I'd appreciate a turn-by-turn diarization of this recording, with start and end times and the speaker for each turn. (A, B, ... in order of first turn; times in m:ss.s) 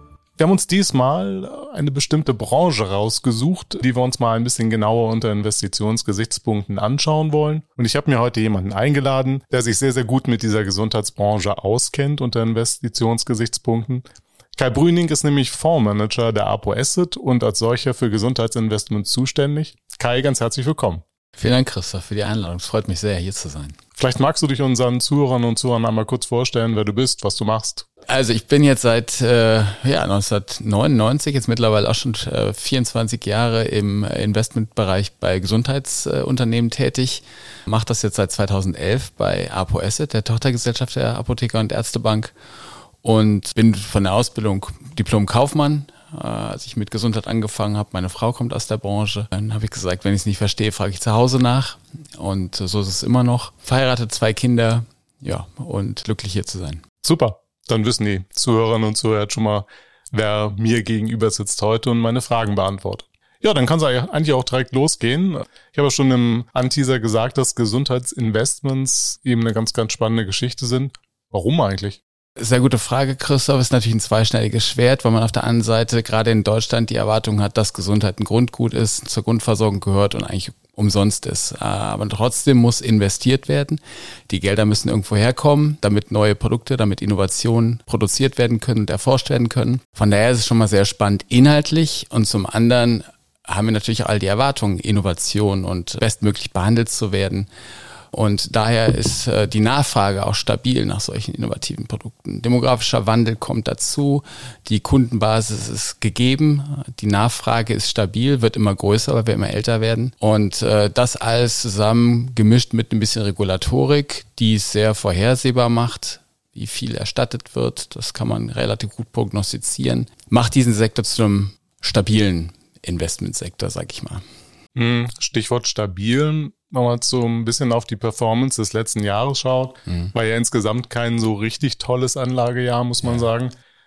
0:00.4-0:14.0 A
0:14.6-0:21.0 A
0:21.4-0:23.8 B
0:24.0-0:27.9 A
0:28.1-0:42.3 B
0:43.0-0:56.8 B
0:57.0-1:12.0 A
1:12.4-1:37.5 B
1:38.1-2:04.2 B
2:04.8-2:13.5 A
2:09.9-2:10.1 B